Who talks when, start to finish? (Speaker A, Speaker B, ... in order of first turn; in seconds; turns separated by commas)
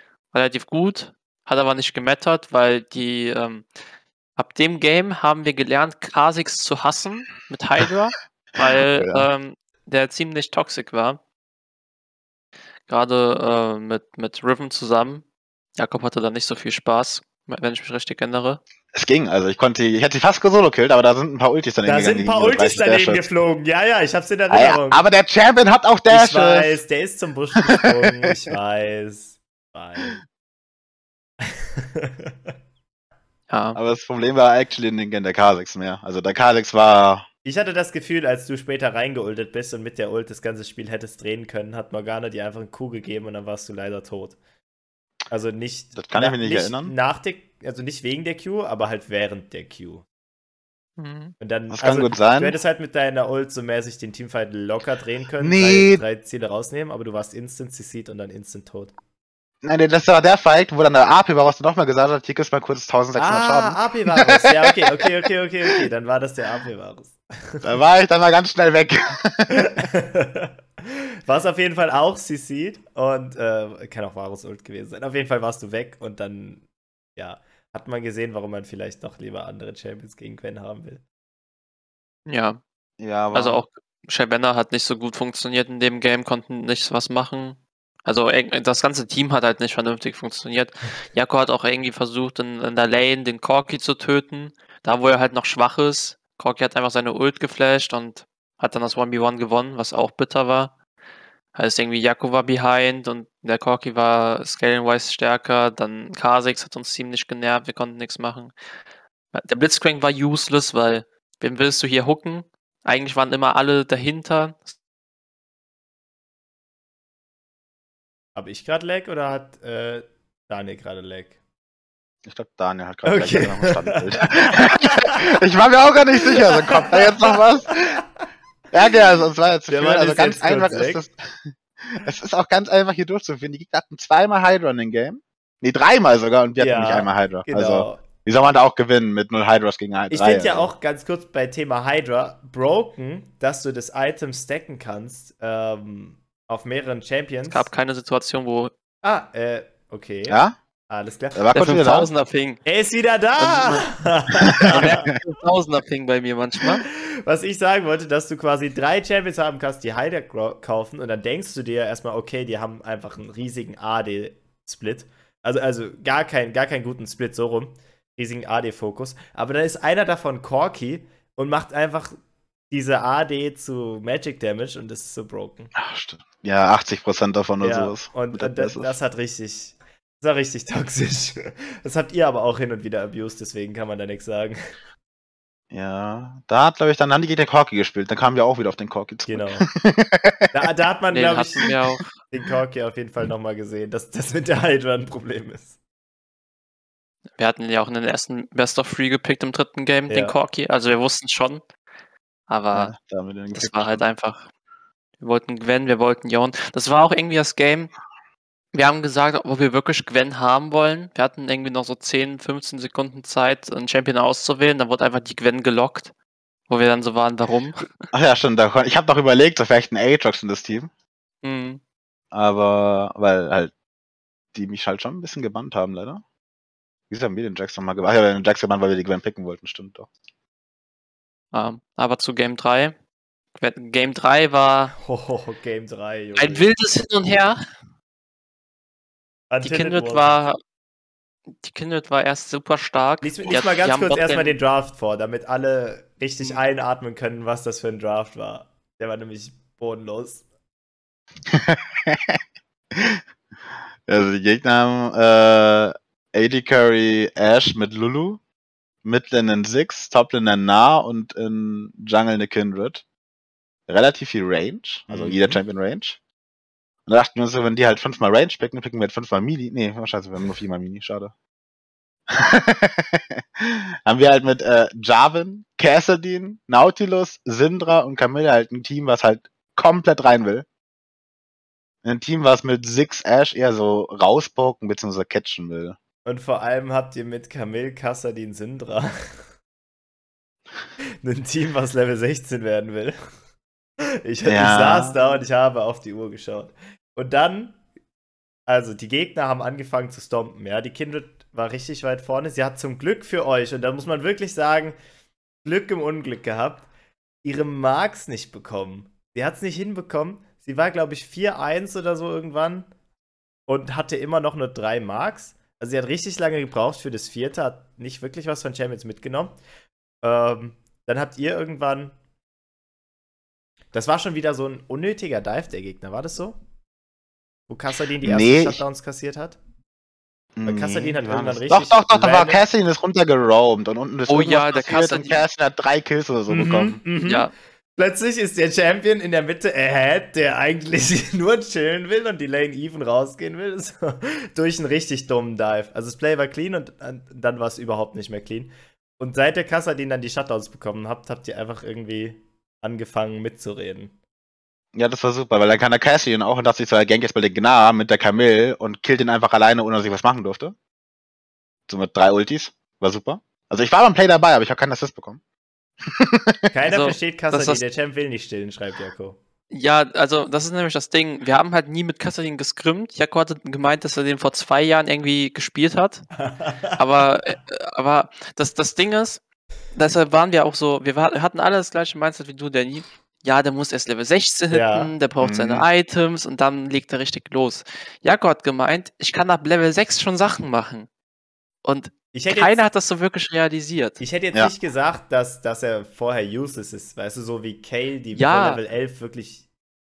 Speaker A: 0.3-3.7, Speaker A: 4.4-11.2, Speaker B: 8.9-9.3, Speaker A: 12.9-15.2, Speaker A: 15.8-18.6, Speaker B: 18.9-23.2, Speaker C: 21.8-25.0, Speaker B: 24.5-26.8, Speaker C: 26.1-30.2, Speaker C: 31.4-32.5, Speaker A: 33.5-33.8, Speaker B: 33.7-37.2, Speaker C: 37.4-44.4, Speaker C: 45.3-50.0, Speaker B: 46.0-46.9, Speaker A: 51.0-51.3, Speaker C: 51.4-58.9, Speaker B: 51.7-52.6, Speaker B: 55.4-56.0, Speaker B: 59.6-65.1, Speaker C: 63.1-67.7, Speaker B: 67.6-69.8, Speaker C: 69.5-76.6, Speaker C: 77.2-81.0, Speaker A: 82.3-82.6, Speaker B: 83.0-83.6, Speaker A: 83.3-100.7, Speaker A: 101.5-108.5, Speaker A: 109.3-114.8, Speaker C: 118.3-121.3, Speaker B: 122.2-128.0, Speaker C: 123.0-125.3, Speaker C: 126.3-127.8, Speaker B: 128.7-140.7, Speaker C: 129.7-131.0, Speaker C: 136.6-138.0, Speaker C: 140.1-147.7, Speaker A: 147.5-148.7, Speaker C: 149.0-151.4, Speaker B: 150.3-150.5, Speaker B: 151.3-152.1, Speaker A: 151.5-152.6, Speaker C: 152.6-155.1, Speaker A: 153.4-153.9, Speaker B: 154.4-155.2, Speaker A: 154.6-156.8, Speaker C: 156.9-172.2, Speaker C: 172.7-175.7, Speaker B: 175.7-178.9, Speaker C: 177.6-184.6, Speaker B: 185.7-190.5, Speaker C: 189.3-189.7, Speaker C: 190.5-195.7, Speaker A: 191.1-192.1, Speaker A: 197.4-201.6, Speaker C: 200.1-200.3, Speaker A: 202.5-202.9, Speaker B: 202.7-204.0, Speaker A: 203.5-204.5, Speaker A: 205.2-207.9, Speaker A: 208.7-216.1, Speaker A: 216.7-217.9, Speaker B: 218.1-220.9, Speaker A: 221.4-221.8, Speaker B: 222.3-223.7, Speaker B: 224.5-226.2, Speaker B: 227.1-230.1, Speaker A: 231.5-232.9, Speaker A: 233.6-234.9, Speaker C: 235.0-236.7, Speaker A: 236.4-237.6, Speaker C: 239.5-240.4, Speaker A: 239.6-240.6, Speaker A: 241.6-244.6, Speaker C: 243.2-250.4, Speaker B: 251.5-252.4, Speaker B: 252.9-253.2, Speaker B: 254.1-258.4, Speaker B: 259.0-263.0, Speaker B: 263.9-266.2, Speaker C: 265.1-265.6, Speaker B: 267.1-271.3, Speaker B: 272.3-280.6, Speaker B: 282.0-286.0, Speaker C: 286.2-289.4, Speaker C: 291.2-293.1, Speaker C: 294.0-297.8, Speaker B: 294.4-295.2, Speaker C: 298.7-305.0, Speaker C: 305.6-306.9, Speaker C: 307.4-312.9, Speaker C: 313.7-319.6, Speaker C: 320.2-322.1, Speaker C: 323.9-326.6, Speaker C: 327.7-329.6, Speaker B: 328.2-328.8, Speaker B: 330.6-337.0, Speaker C: 330.6-332.6, Speaker A: 334.3-335.4, Speaker C: 336.5-354.1, Speaker A: 337.2-337.5, Speaker B: 354.9-360.7, Speaker B: 361.9-365.4, Speaker B: 366.0-366.7, Speaker C: 366.7-369.4, Speaker A: 366.8-367.8, Speaker A: 369.7-376.3, Speaker C: 376.4-377.0, Speaker A: 376.9-379.4, Speaker A: 379.9-391.1, Speaker C: 384.7-385.1, Speaker B: 385.4-385.9, Speaker A: 391.8-394.2, Speaker C: 392.3-392.8, Speaker C: 394.2-399.6, Speaker A: 398.3-398.8